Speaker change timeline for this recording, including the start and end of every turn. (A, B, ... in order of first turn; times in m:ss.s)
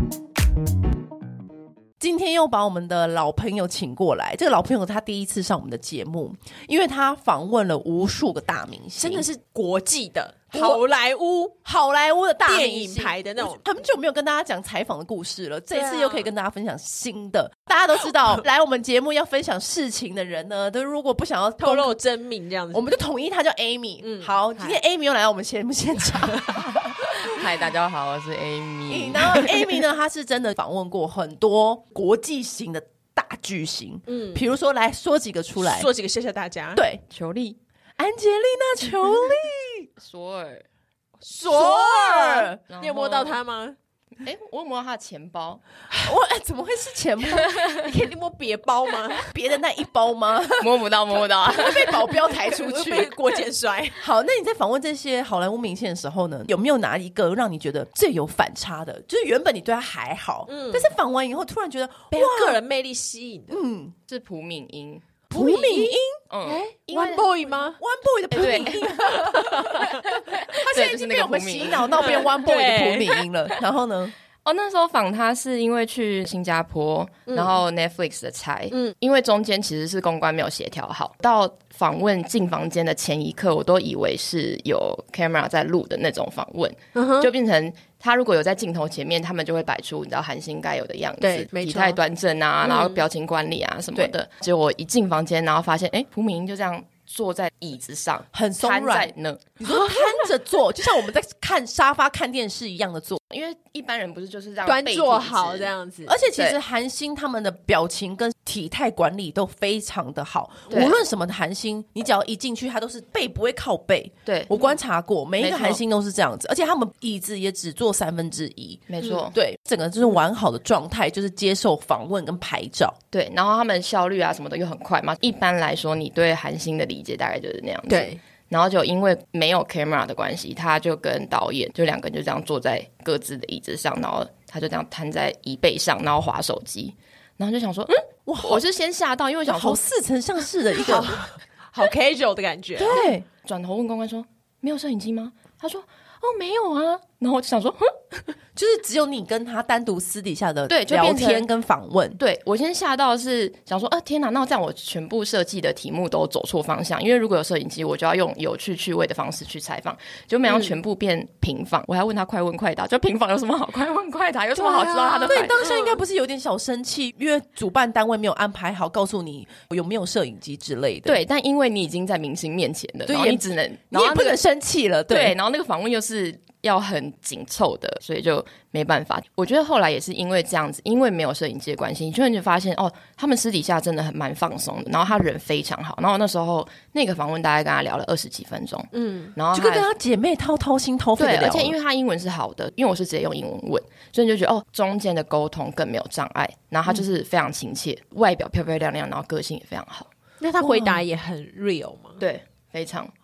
0:02.0-0:09.3 A
0:09.0-0:11.6 B
0:10.5-0:10.8 A
0:11.6-0:22.0 A
0:12.5-0:13.6 B
0:15.7-0:16.3 B
0:21.6-0:22.9 B
0:22.7-0:27.4 A
0:24.0-0:24.8 B
0:27.1-0:29.5 C
0:28.9-0:35.9 A
0:34.1-0:34.4 B
0:35.6-0:36.8 B
0:36.8-0:37.0 A
0:37.1-0:37.6 C
0:38.0-0:39.9 A
0:40.0-0:40.6 C
0:41.2-0:43.8 B
0:41.4-0:42.6 A
0:42.7-0:43.4 C
0:44.2-0:45.6 C
0:45.9-0:47.6 A
0:47.5-0:49.3 B
0:49.2-0:53.2 A
0:50.6-0:52.1 C
0:51.6-0:54.1 B
0:54.0-1:02.6 A
1:00.5-1:00.9 B
1:02.1-1:03.6 B
1:03.5-1:04.0 A
1:04.1-1:05.0 C
1:05.3-1:06.2 A
1:05.3-1:07.8 B
1:06.3-1:07.3 C
1:06.9-1:14.1 A
1:08.3-1:12.3 C
1:09.1-1:10.0 B
1:11.8-1:13.3 B
1:14.4-1:39.4 C
1:17.3-1:17.6 B
1:26.9-1:27.3 B
1:31.2-1:32.0 B
1:32.6-1:33.0 B
1:38.3-1:43.2 A
1:39.6-1:40.3 B
1:43.3-1:45.7 C
1:44.6-1:46.2 B
1:46.1-2:03.0 A
1:50.7-1:51.0 C
1:54.2-1:54.5 C
1:55.4-1:55.8 C
1:58.9-1:59.3 C
2:03.1-2:19.8 C
2:07.9-2:08.2 B
2:18.2-2:18.6 A
2:19.5-2:21.2 A
2:20.8-2:23.1 B
2:22.8-2:23.2 A
2:22.9-2:28.0 C
2:28.6-2:32.2 A
2:30.7-2:31.5 C
2:32.2-2:45.6 C
2:40.5-2:40.7 B
2:44.6-2:46.0 B
2:45.3-2:51.2 A
2:51.1-2:54.4 C
2:53.1-2:55.4 A
2:55.1-3:09.9 C
3:08.9-3:09.3 B
3:09.5-3:11.7 A
3:11.2-3:20.1 C
3:20.4-3:22.2 B
3:20.6-3:21.0 A
3:22.2-3:23.1 C